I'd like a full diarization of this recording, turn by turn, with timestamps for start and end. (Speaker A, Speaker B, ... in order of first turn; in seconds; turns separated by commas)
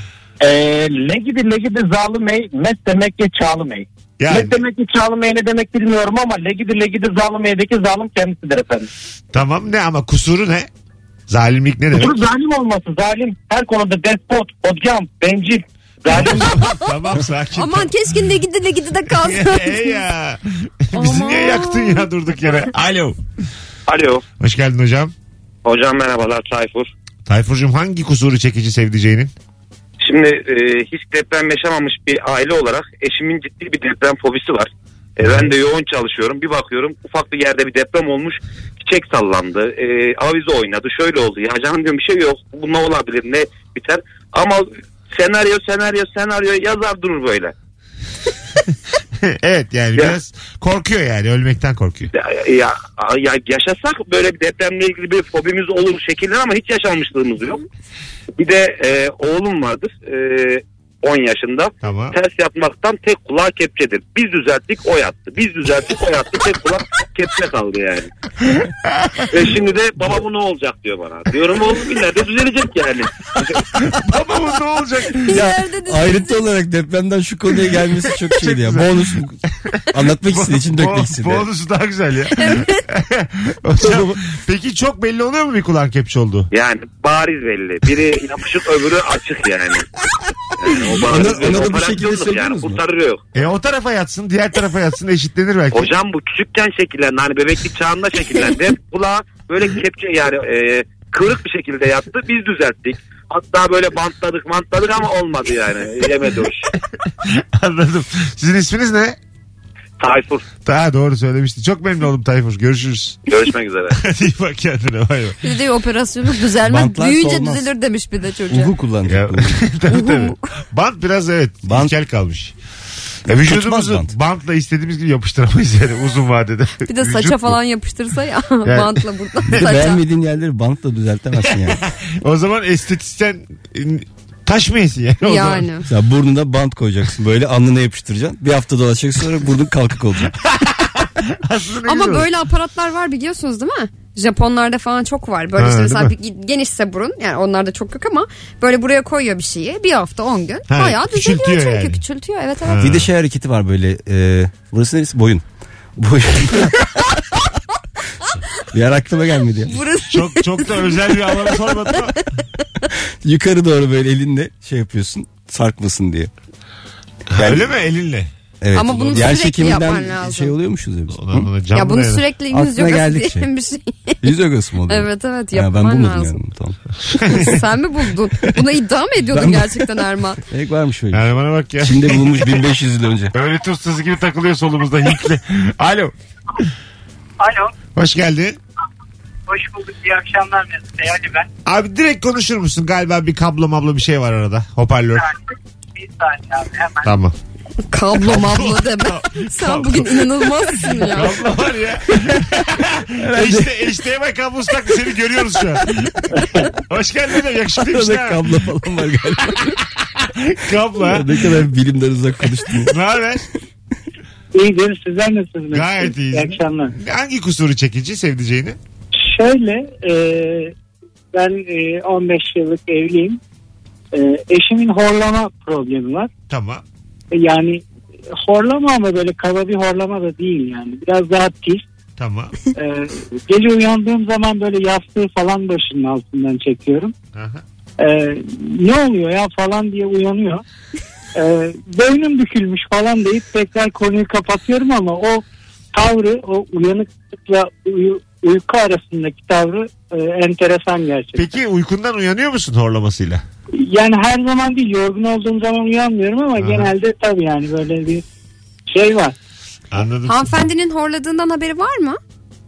Speaker A: 0.4-8.9, Speaker B: 4.2-4.6, Speaker B: 9.3-10.7, Speaker B: 11.3-12.2, Speaker A: 11.9-16.6, Speaker B: 16.1-17.9, Speaker C: 16.6-16.8, Speaker C: 17.5-20.0, Speaker B: 19.1-23.2, Speaker C: 20.9-22.1, Speaker D: 23.9-24.2, Speaker B: 24.4-25.1, Speaker D: 25.6-26.9, Speaker B: 27.2-29.3, Speaker D: 30.0-47.5, Speaker B: 49.2-52.1, Speaker D: 52.1-57.6, Speaker D: 58.4-68.1, Speaker B: 61.8-62.1, Speaker D: 69.3-73.6, Speaker B: 73.8-75.3, Speaker C: 75.2-76.3, Speaker E: 75.3-79.4, Speaker B: 78.3-79.1, Speaker B: 79.7-86.5, Speaker E: 79.9-81.5, Speaker C: 82.4-82.8, Speaker E: 83.8-84.2, Speaker D: 86.5-89.9, Speaker D: 90.6-93.2, Speaker E: 90.9-92.8, Speaker B: 93.3-95.9, Speaker D: 95.7-106.7, Speaker B: 107.2-109.2, Speaker D: 110.0-110.4, Speaker B: 110.6-113.2, Speaker D: 113.3-114.0, Speaker B: 114.0-115.4, Speaker C: 115.4-118.7, Speaker E: 116.6-117.7, Speaker E: 118.5-119.6, Speaker B: 119.1-122.5, Speaker C: 119.9-120.4, Speaker E: 121.6-121.9, Speaker B: 123.2-127.6, Speaker E: 123.3-124.1, Speaker C: 126.8-130.0, Speaker B: 128.6-129.0, Speaker E: 129.5-131.8, Speaker B: 131.5-135.7, Speaker C: 135.2-135.9, Speaker E: 135.9-140.3, Speaker B: 140.5-142.3, Speaker C: 141.8-152.9, Speaker B: 145.6-146.1, Speaker B: 150.7-152.0, Speaker B: 152.6-153.1, Speaker E: 152.8-155.4, Speaker E: 155.9-156.8, Speaker E: 158.7-159.8, Speaker C: 159.7-161.9, Speaker B: 160.1-162.2, Speaker E: 163.2-166.3, Speaker B: 167.3-168.3, Speaker E: 167.3-167.7, Speaker E: 168.6-171.5, Speaker C: 168.7-170.5, Speaker B: 171.1-172.2, Speaker C: 171.7-174.3, Speaker E: 172.5-173.5, Speaker E: 174.2-176.8, Speaker C: 174.9-176.4, Speaker B: 177.1-177.5, Speaker C: 177.3-180.4, Speaker E: 179.3-181.2, Speaker B: 181.1-182.7, Speaker E: 181.8-183.3, Speaker B: 183.3-186.6, Speaker F: 187.4-187.7, Speaker B: 187.9-188.6, Speaker F: 189.5-191.5, Speaker B: 191.7-195.3, Speaker F: 195.9-197.2, Speaker B: 197.0-197.3, Speaker C: 197.9-201.5, Speaker B: 198.2-208.4, Speaker E: 203.2-203.8, Speaker E: 207.8-209.8, Speaker B: 210.2-211.5, Speaker E: 211.0-212.9, Speaker B: 212.8-213.4, Speaker F: 214.5-216.9, Speaker B: 215.7-218.8, Speaker F: 219.2-220.7, Speaker F: 221.3-223.4, Speaker F: 224.1-226.3, Speaker B: 226.5-226.8, Speaker F: 227.3-227.8, Speaker F: 228.3-231.8, Speaker B: 232.2-232.6, Speaker F: 232.7-237.1, Speaker B: 237.3-237.6, Speaker F: 238.0-240.6, Speaker F: 241.3-251.5, Speaker B: 251.3-253.4, Speaker F: 253.8-258.2, Speaker B: 256.6-256.9, Speaker F: 258.9-259.3, Speaker B: 259.9-260.6, Speaker C: 260.2-262.2